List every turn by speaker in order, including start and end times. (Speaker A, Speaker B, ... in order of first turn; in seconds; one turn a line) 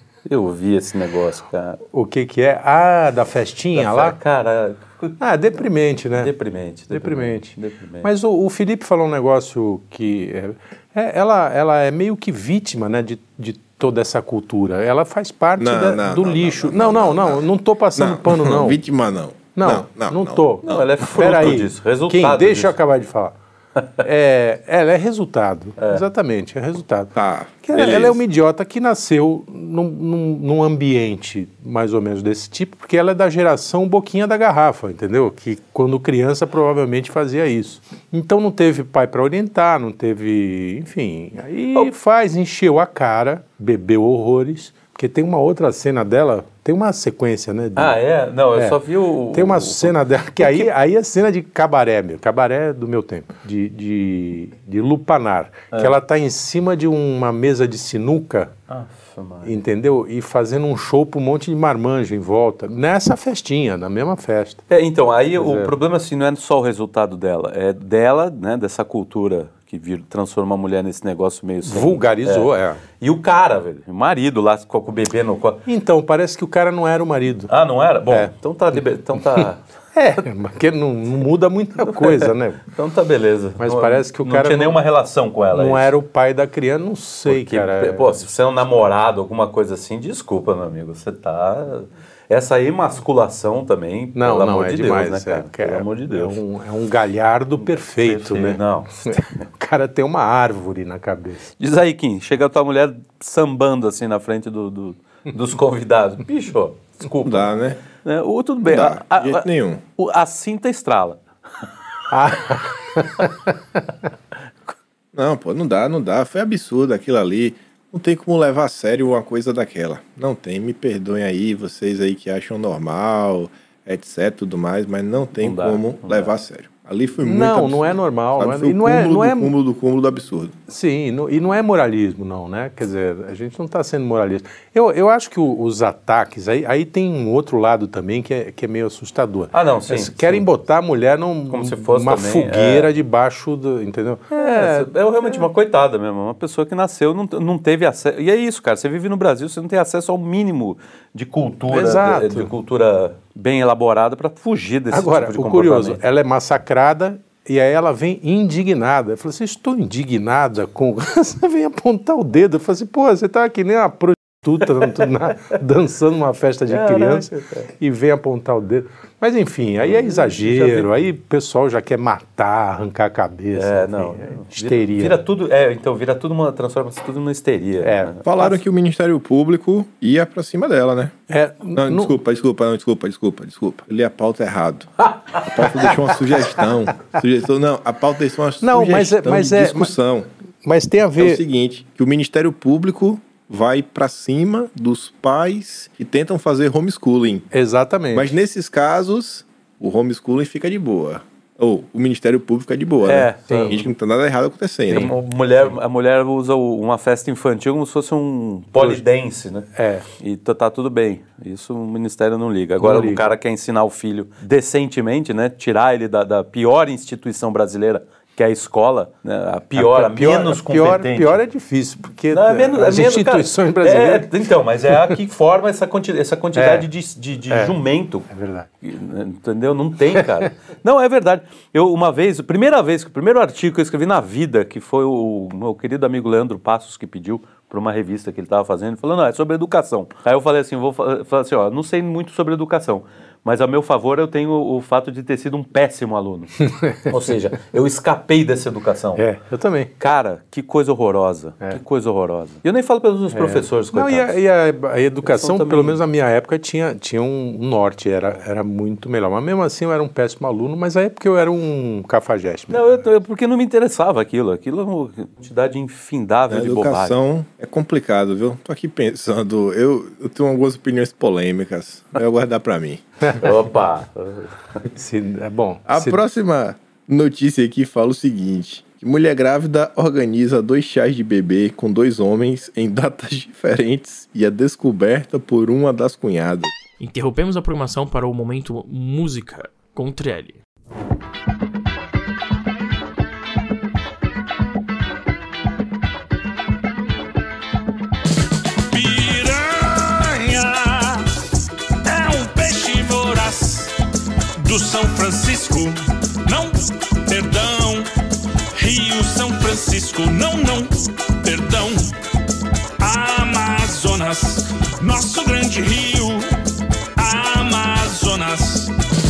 Speaker A: 0.2-1.8
Speaker B: 1.9-4.2
Speaker A: 3.7-5.2
Speaker B: 5.2-6.3
Speaker A: 6.2-8.1
Speaker B: 6.9-18.8
Speaker C: 15.6-21.4
Speaker B: 19.6-23.3
Speaker A: 20.6-22.7
Speaker B: 24.0-27.1
Speaker A: 25.8-26.0
Speaker C: 27.1-28.2
Speaker B: 27.6-48.0
Speaker A: 47.8-50.7
Speaker B: 49.3-58.5
Speaker A: 58.7-59.6
Speaker B: 59.4-64.6
Speaker A: 64.7-75.6
Speaker B: 65.4-65.7
Speaker B: 71.6-72.8
Speaker B: 75.7-77.5
Speaker A: 77.5-79.6
Speaker B: 79.9-82.6
Speaker A: 81.8-85.9
Speaker B: 83.6-84.8
Speaker B: 85.5-88.2
Speaker A: 87.3-96.4
Speaker B: 94.2-101.5
Speaker A: 97.6-99.4
Speaker A: 101.6-107.5
Speaker C: 107.2-107.8
Speaker A: 108.0-111.2
Speaker C: 108.7-109.8
Speaker B: 112.1-113.5
Speaker C: 115.1-130.5
Speaker A: 125.4-126.3
Speaker B: 127.2-129.5
Speaker B: 130.7-145.4
Speaker A: 139.5-140.4
Speaker A: 141.5-142.9
Speaker A: 144.3-156.0
Speaker B: 151.7-152.5
Speaker B: 154.9-175.2
Speaker A: 164.8-165.1
Speaker A: 166.7-167.7
Speaker A: 169.8-170.9
Speaker A: 173.5-178.2
Speaker B: 177.8-178.2
Speaker C: 178.2-181.1
Speaker B: 181.3-182.1
Speaker C: 181.7-190.3
Speaker B: 188.6-189.9
Speaker B: 190.6-191.4
Speaker C: 191.2-197.5
Speaker B: 197.5-198.3
Speaker C: 198.1-205.1
Speaker A: 203.0-203.8
Speaker B: 203.5-203.8
Speaker B: 204.9-205.1
Speaker A: 204.9-221.4
Speaker B: 208.8-209.0
Speaker B: 209.7-210.1
Speaker B: 212.8-213.3
Speaker B: 219.8-224.3
Speaker A: 222.3-228.3
Speaker B: 226.5-226.9
Speaker B: 227.5-227.7
Speaker B: 228.3-228.7
Speaker A: 228.8-249.2
Speaker B: 246.6-247.1
Speaker B: 249.2-249.9
Speaker A: 250.0-254.3
Speaker B: 253.3-262.8
Speaker A: 255.2-256.0
Speaker A: 262.7-267.1
Speaker C: 266.5-273.0
Speaker A: 273.3-274.8
Speaker B: 274.9-276.2
Speaker C: 275.9-286.7
Speaker D: 287.0-290.6
Speaker E: 298.9-301.3
Speaker E: 302.0-303.9
Speaker E: 304.6-308.1
Speaker E: 308.7-312.1
Speaker E: 313.0-316.5
Speaker E: 317.1-318.9